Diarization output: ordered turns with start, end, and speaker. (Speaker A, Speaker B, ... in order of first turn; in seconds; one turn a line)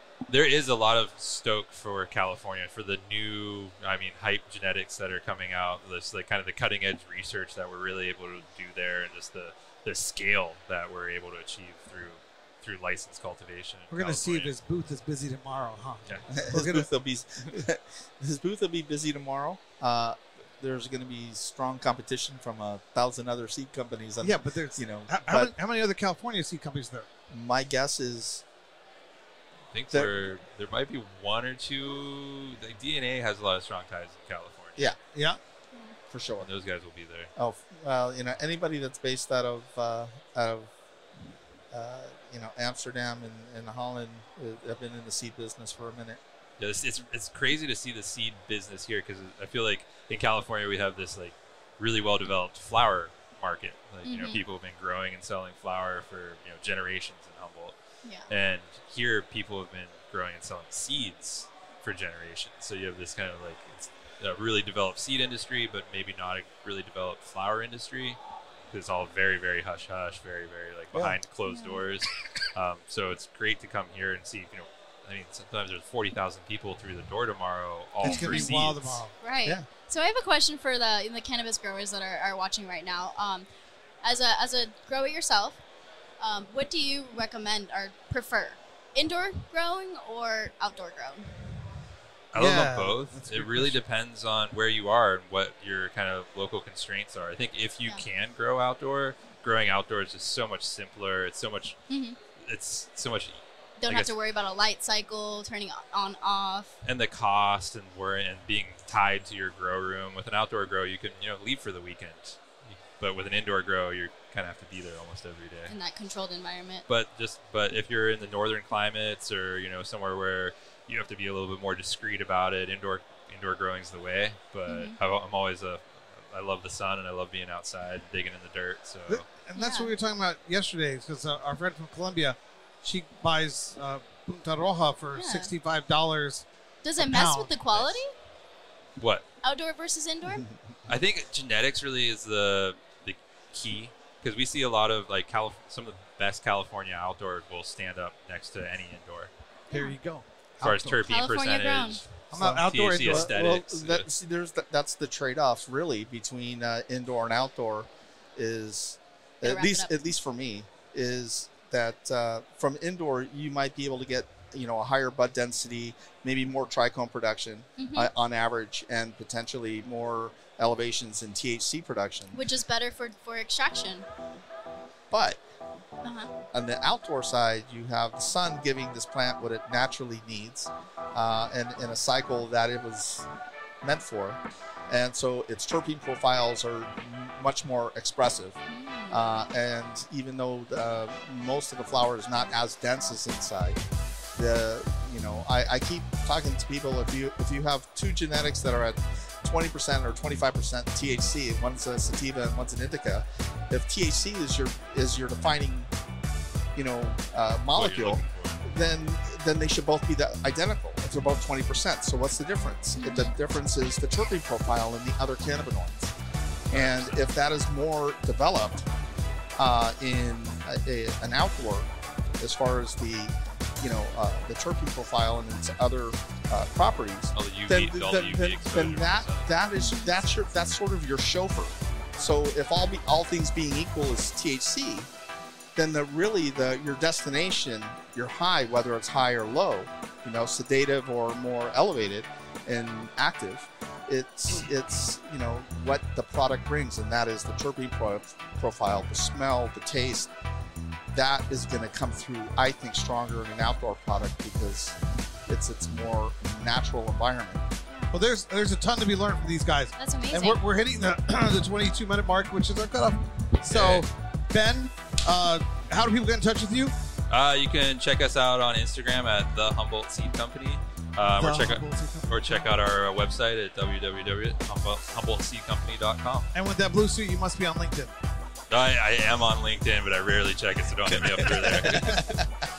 Speaker A: 0.3-14.5
Speaker B: 13.9-16.9
Speaker C: 16.3-25.5
Speaker B: 24.2-27.1
Speaker C: 27.3-28.4
Speaker A: 29.7-34.8
Speaker B: 35.1-35.4
Speaker C: 36.1-36.5
Speaker A: 36.4-37.3
Speaker C: 37.4-40.7
Speaker C: 41.7-46.2
Speaker A: 46.6-57.7
Speaker D: 54.0-54.4
Speaker D: 58.0-58.3
Speaker A: 58.3-68.2
Speaker A: 68.7-79.0
Speaker D: 71.5-71.8
Speaker B: 78.0-79.7
Speaker D: 78.0-78.5
Speaker D: 79.2-83.5
Speaker D: 84.0-85.6
Speaker D: 86.2-91.6
Speaker A: 92.3-101.8
Speaker B: 92.3-93.8
Speaker D: 101.9-102.2
Speaker A: 102.4-104.1
Speaker D: 103.8-106.7
Speaker A: 106.8-115.7
Speaker D: 115.7-116.8
Speaker A: 116.9-129.2
Speaker D: 124.7-125.0
Speaker B: 129.1-136.4
Speaker D: 129.6-129.9
Speaker D: 135.1-135.5
Speaker D: 136.8-138.1
Speaker B: 137.0-137.5
Speaker A: 137.7-138.0
Speaker A: 139.0-139.2
Speaker D: 139.4-140.4
Speaker A: 140.9-149.3
Speaker D: 149.7-149.9
Speaker B: 149.7-151.0
Speaker A: 150.6-154.1
Speaker D: 151.1-152.0
Speaker B: 152.3-153.3
Speaker C: 153.0-172.4
Speaker D: 159.4-159.9
Speaker D: 167.8-168.1
Speaker D: 172.3-174.1
Speaker C: 175.1-175.4
Speaker D: 176.0-176.3
Speaker C: 176.5-183.3
Speaker C: 183.8-188.6
Speaker D: 188.7-189.2
Speaker C: 189.1-193.8
Speaker C: 194.3-205.9
Speaker C: 206.7-216.1
Speaker A: 207.7-208.6
Speaker D: 213.0-213.3
Speaker C: 216.7-218.8
Speaker A: 216.7-217.2
Speaker C: 219.6-235.1
Speaker A: 227.3-229.5
Speaker D: 229.7-230.2
Speaker C: 235.7-250.3
Speaker C: 251.1-254.9
Speaker C: 255.5-257.6
Speaker B: 258.1-266.9
Speaker D: 260.0-260.6
Speaker A: 263.6-264.1
Speaker A: 267.3-276.5
Speaker B: 271.4-272.6
Speaker B: 276.5-278.1
Speaker A: 278.7-282.2
Speaker C: 281.2-282.5